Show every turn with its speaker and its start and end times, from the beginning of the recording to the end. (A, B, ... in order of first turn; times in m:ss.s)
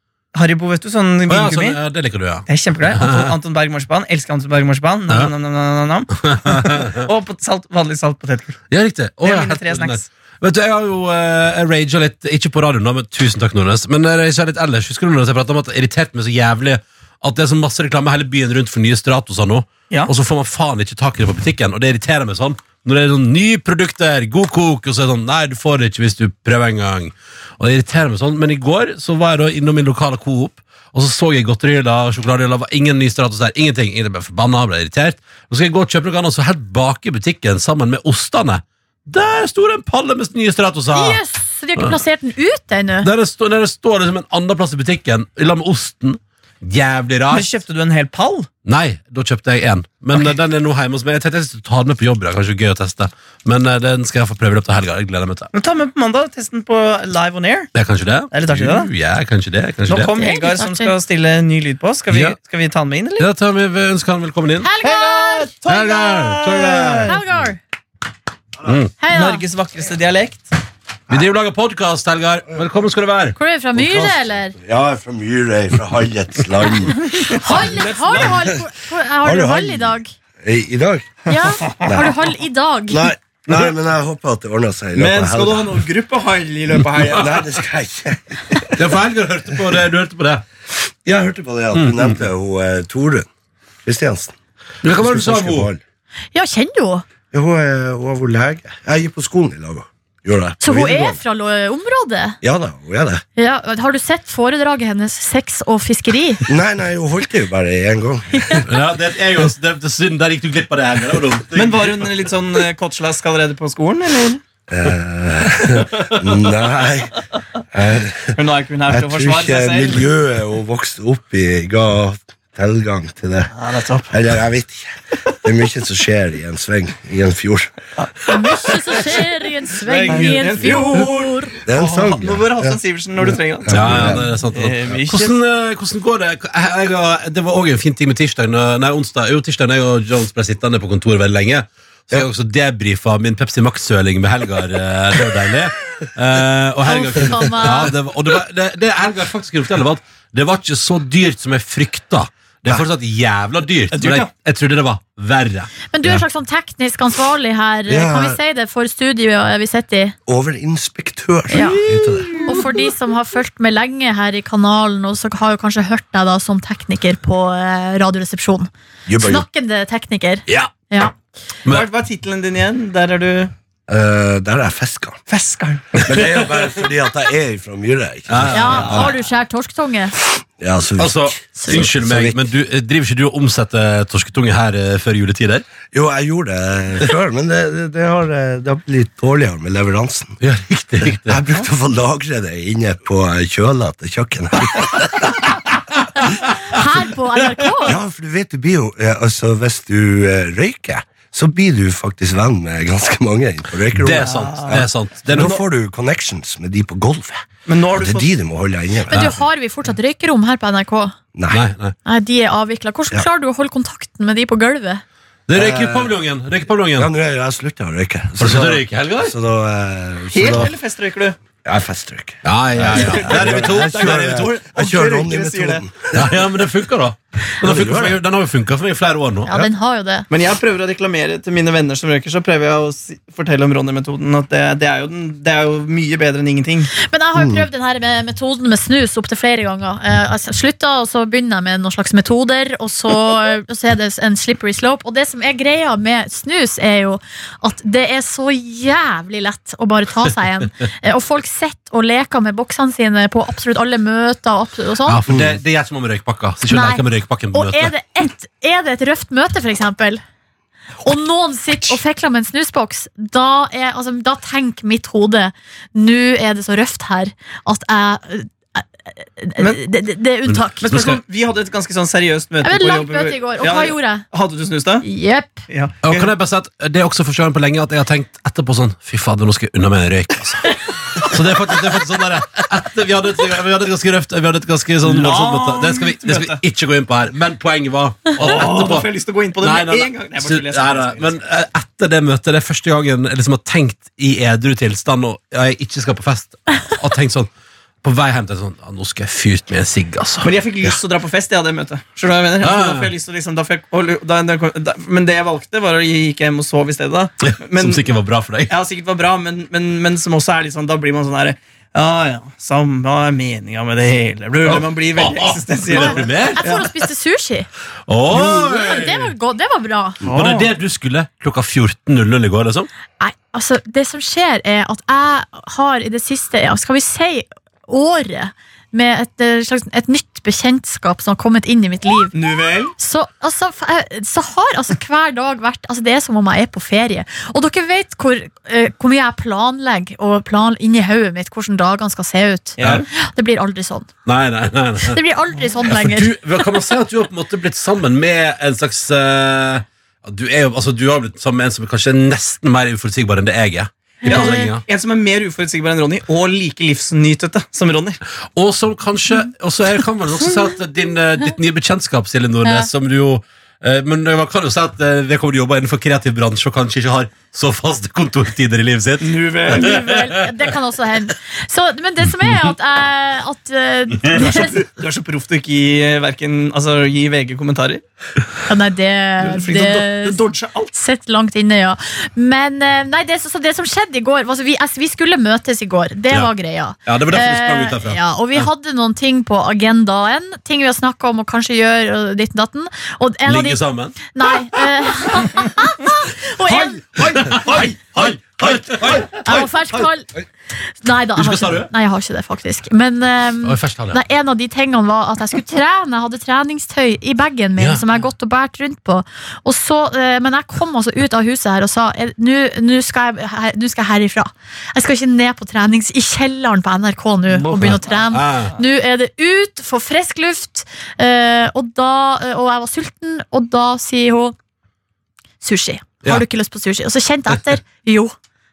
0:00.3-0:01.8 A
0:01.3-0:03.3 B
0:02.5-0:08.6 A
0:06.2-0:07.1 B
0:08.7-0:41.2 B
0:09.2-0:10.0 A
0:40.9-0:43.1 C
0:43.0-0:47.5 B
0:47.3-0:48.5 A
0:48.7-0:55.5 B
0:55.5-0:57.7 A
0:57.8-1:00.1 B
0:58.3-0:58.9 A
0:59.9-1:03.3 A
1:00.2-1:00.9 C
1:02.1-1:02.4 B
1:03.2-1:04.7 B
1:04.6-1:05.5 C
1:04.8-1:07.1 A
1:05.7-1:07.2 B
1:07.1-1:07.6 C
1:08.6-1:08.9 B
1:09.0-1:09.4 C
1:09.1-1:10.5 A
1:11.1-1:13.4 B
1:13.4-1:14.6 C
1:13.8-1:17.3 D
1:17.2-1:18.4 A
1:17.3-1:20.1 C
1:19.2-1:22.3 D
1:21.3-1:23.1 C
1:22.9-1:25.9 D
1:25.0-1:27.4 A
1:27.0-1:28.6 D
1:28.8-1:30.4 B
1:31.0-1:33.3 D
1:31.8-1:32.2 B
1:33.8-1:34.4 D
1:34.8-1:35.7 B
1:34.9-1:35.8 D
1:36.3-1:37.0 C
1:37.3-1:41.2 D
1:40.6-1:42.4 C
1:42.4-1:43.2 D
1:43.4-1:46.4 C
1:46.5-1:48.6 D
1:48.3-1:48.6 C
1:48.7-1:52.0 B
1:51.6-1:54.4 A
1:54.7-1:57.2 D
1:57.7-1:58.4 D
1:58.4-2:00.0 A
1:58.9-2:03.5 D
2:03.6-2:04.1 A
2:04.1-2:07.7 D
2:08.0-2:08.9 A
2:08.3-2:11.5 C
2:10.0-2:15.4 A
2:10.0-2:10.7 B
2:11.7-2:14.3 D
2:13.7-2:35.7 B
2:26.8-2:27.9 C
2:27.1-2:27.9 D
2:33.9-2:34.3 A
2:35.9-2:40.2 C
2:37.9-2:38.4 D
2:40.3-2:42.4 D
2:41.5-2:41.8 C
2:42.4-2:48.7 C
2:49.1-2:49.5 D
2:49.2-2:51.1 C
2:51.7-2:53.5 A
2:53.9-2:55.2 D
2:55.3-2:56.1 A
2:55.9-2:59.2 D
2:58.3-2:59.1 B
2:58.5-3:00.1 C
3:00.6-3:02.4 D
3:01.0-3:05.7 B
3:01.6-3:01.9 C
3:05.9-3:10.4 D
3:10.4-3:11.4 B
3:11.3-3:15.4 D
3:16.6-3:18.0 C
3:17.8-3:29.4 D
3:24.0-3:25.6 B
3:24.2-3:25.6 A
3:27.7-3:28.3 A
3:29.1-3:31.1 C
3:31.4-3:31.6 D
3:31.5-3:32.0 B
3:32.1-3:35.0 C
3:35.5-3:37.1 B
3:35.5-3:36.2 D
3:37.0-3:40.7 D
3:38.4-3:39.3 B
3:40.3-3:41.4 A
3:41.6-3:46.8 D
3:42.4-3:44.6 B
3:42.9-3:45.9 A
3:46.1-3:49.7 B
3:47.6-3:48.2 D
3:49.5-3:50.3 C
3:50.3-3:57.0 A
3:57.0-4:15.2 C
3:57.4-3:57.6 D
4:15.1-4:17.9 B
4:15.3-4:15.6 D
4:16.7-4:20.2 C
4:21.0-4:30.9 C
4:30.5-4:31.2 B
4:30.8-4:35.0 A
4:32.6-4:34.2 C
4:35.0-4:35.6 C
4:35.7-4:36.3 A
4:36.0-4:57.5 B
4:45.0-4:46.6 A
4:48.4-4:51.4 A
4:58.0-5:01.0 B
5:00.4-5:08.0 A
5:02.6-5:03.1 B
5:07.4-5:08.7 B
5:08.7-5:16.8 A
5:14.6-5:16.8 B
5:16.6-5:17.7 C
5:18.1-5:19.3 B
5:18.4-5:20.2 C
5:20.2-5:20.7 A
5:20.2-5:22.9 B
5:23.2-5:32.4 C
5:32.3-5:32.9 A
5:33.0-5:44.1 C
5:42.8-5:43.1 A
5:42.8-5:43.0 B
5:44.3-5:45.2 B
5:45.0-5:46.7 C
5:45.8-5:54.8 B
5:54.2-5:54.7 C
5:54.2-5:58.2 A
5:58.6-6:10.5 B
6:09.2-6:09.9 A
6:09.7-6:14.9 C
6:14.4-6:18.0 A
6:18.7-6:20.4 C
6:19.4-6:20.9 A
6:20.9-6:37.0 C
6:27.1-6:28.2 B
6:33.5-6:34.2 B
6:37.1-6:37.7 A
6:37.1-6:40.0 B
6:39.3-6:40.3 C
6:41.0-7:04.6 C
6:41.4-6:41.9 B
6:43.6-6:44.2 B
6:47.8-6:48.0 B
6:57.6-6:58.7 B
7:05.6-7:08.3 C